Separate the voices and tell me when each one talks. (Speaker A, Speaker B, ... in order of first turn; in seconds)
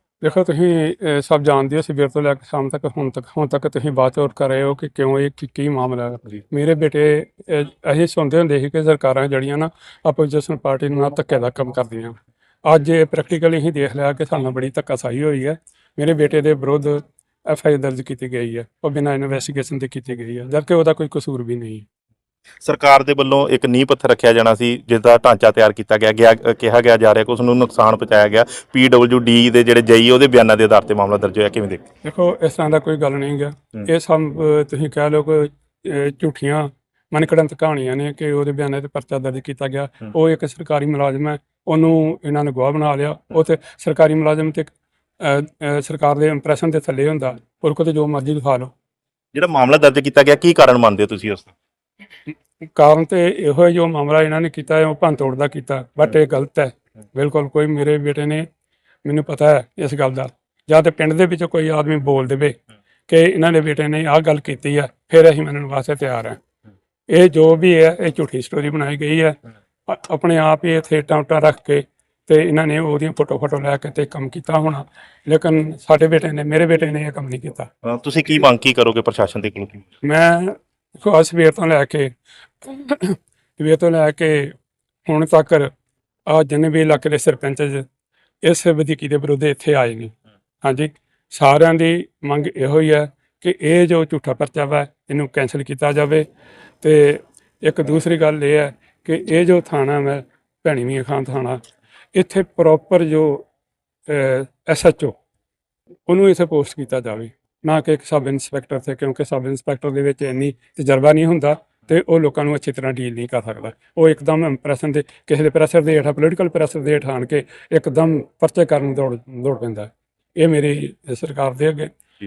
Speaker A: 0.2-21.8, 32.0-48.7, 52.8-58.5, 59.0-62.6, 63.1-66.4, 67.1-69.3, 69.9-77.7, 80.0-82.1, 82.6-84.5, 85.1-85.7, 86.3-87.8, 88.4-90.1, 90.6-96.2, 96.8-101.6, 102.2-103.5, 104.1-105.1, 106.1-121.9
Speaker B: 22.6-31.8, 49.3-51.5, 77.9-79.8